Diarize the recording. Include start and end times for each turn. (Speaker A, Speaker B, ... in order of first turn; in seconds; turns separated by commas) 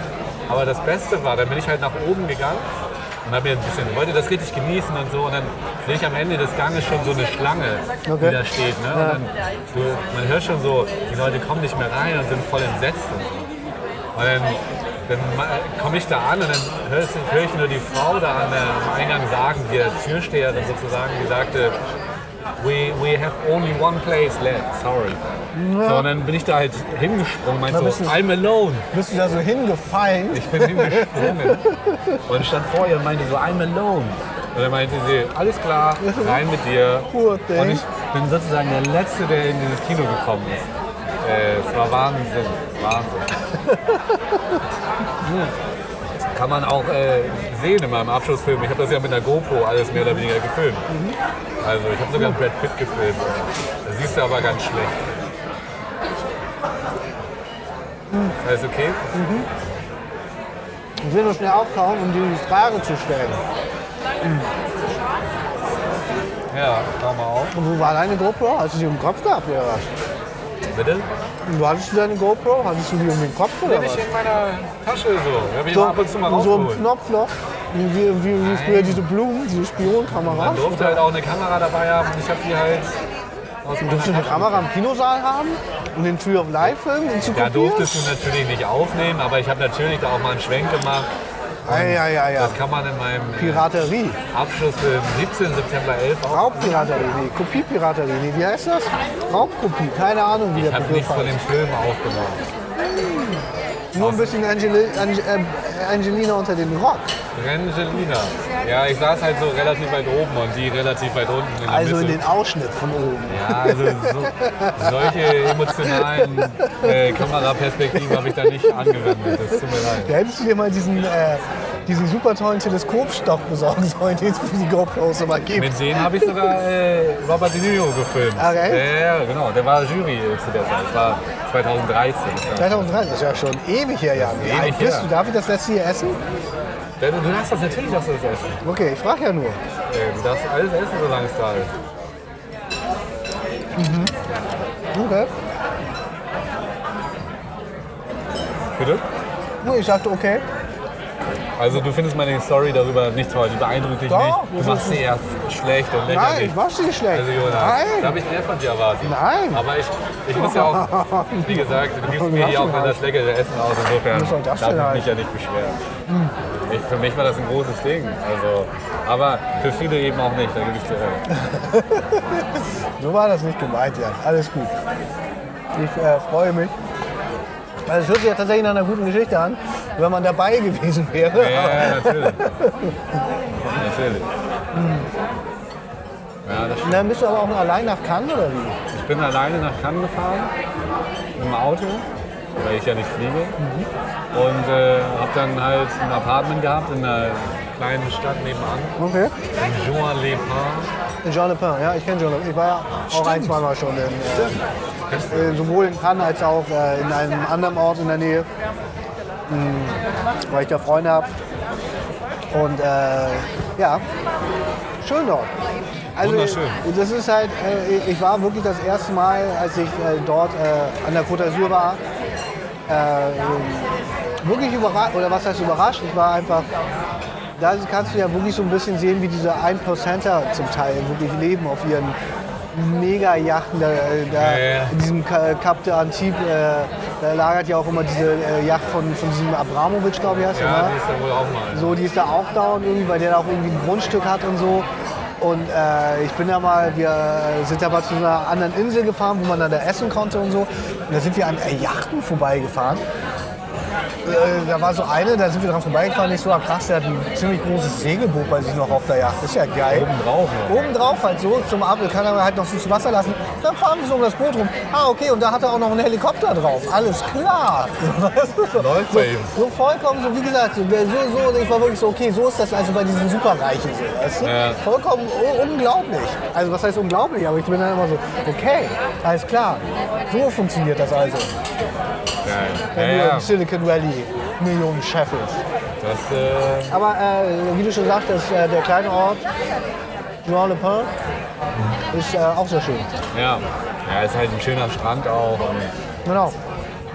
Speaker A: 0.5-2.6, Speaker A: 3.2-13.4, Speaker B: 8.1-9.2, Speaker A: 14.1-21.8, Speaker A: 22.6-25.2, Speaker B: 25.5-26.1, Speaker A: 25.8-28.9, Speaker B: 27.7-28.2, Speaker B: 28.9-32.2, Speaker A: 30.3-31.6, Speaker A: 32.3-40.7, Speaker B: 36.0-36.4, Speaker B: 37.1-37.8, Speaker A: 41.2-43.3, Speaker B: 43.6-44.6, Speaker A: 46.3-50.9, Speaker B: 49.9-50.2, Speaker B: 50.9-51.2, Speaker A: 51.6-55.1, Speaker B: 58.1-58.4, Speaker A: 58.4-59.1, Speaker B: 59.1-59.5, Speaker B: 61.0-63.4, Speaker B: 64.2-64.5, Speaker A: 66.5-67.5, Speaker B: 67.5-69.9, Speaker A: 70.7-71.1, Speaker B: 71.5-74.0, Speaker A: 73.6-76.9, Speaker B: 75.7-81.0, Speaker A: 78.4-79.0, Speaker A: 80.2-82.9, Speaker A: 83.6-84.7, Speaker B: 83.8-88.2, Speaker A: 87.2-91.1, Speaker A: 91.6-93.7, Speaker B: 91.7-92.6, Speaker B: 93.4-94.2, Speaker A: 94.3-97.1, Speaker B: 96.3-101.3, Speaker A: 100.5-102.4, Speaker B: 102.8-107.0, Speaker A: 104.0-104.3, Speaker A: 107.3-112.2, Speaker B: 111.7-115.3, Speaker A: 113.3-120.1, Speaker B: 115.8-117.2, Speaker B: 117.9-126.3, Speaker A: 125.5-132.9, Speaker B: 128.4-128.9, Speaker B: 132.6-136.2, Speaker A: 134.1-135.1, Speaker A: 137.0-138.6, Speaker B: 138.6-139.6, Speaker A: 139.9-141.7, Speaker B: 143.8-144.1, Speaker B: 144.9-145.3, Speaker A: 148.8-149.0, Speaker B: 149.6-150.4, Speaker A: 151.6-156.6, Speaker B: 154.1-155.0, Speaker B: 156.1-158.2, Speaker A: 157.1-165.8, Speaker B: 159.0-159.6, Speaker B: 160.3-163.0, Speaker B: 164.1-165.1, Speaker B: 166.1-166.3, Speaker A: 166.7-171.3, Speaker B: 171.3-174.7, Speaker B: 175.7-176.7, Speaker B: 177.8-182.9, Speaker A: 181.3-182.5, Speaker A: 183.7-184.3, Speaker B: 184.7-185.1, Speaker A: 186.4-187.1, Speaker B: 186.8-188.8, Speaker A: 188.9-190.5, Speaker A: 191.3-192.1, Speaker A: 192.6-193.6, Speaker B: 193.6-193.9, Speaker A: 194.3-198.9, Speaker B: 199.0-199.3, Speaker A: 199.5-200.9, Speaker B: 201.2-204.6, Speaker A: 203.1-203.6, Speaker A: 205.1-205.5, Speaker B: 205.3-208.5, Speaker B: 209.5-211.3, Speaker B: 212.5-214.0, Speaker B: 215.0-215.5, Speaker B: 216.2-222.0, Speaker A: 216.2-216.8, Speaker B: 222.9-226.7, Speaker B: 227.6-232.2, Speaker B: 232.7-240.9, Speaker A: 234.3-235.0, Speaker A: 240.3-242.0, Speaker B: 241.7-244.9, Speaker B: 245.4-253.0, Speaker B: 254.2-260.1, Speaker A: 259.9-260.8, Speaker B: 260.7-281.5, Speaker A: 268.8-269.6, Speaker A: 274.4-274.8, Speaker A: 282.4-283.5, Speaker B: 282.9-285.6, Speaker A: 286.0-287.0, Speaker B: 286.9-289.4, Speaker B: 290.4-291.1, Speaker B: 292.1-293.1, Speaker A: 293.3-295.9, Speaker B: 296.2-296.6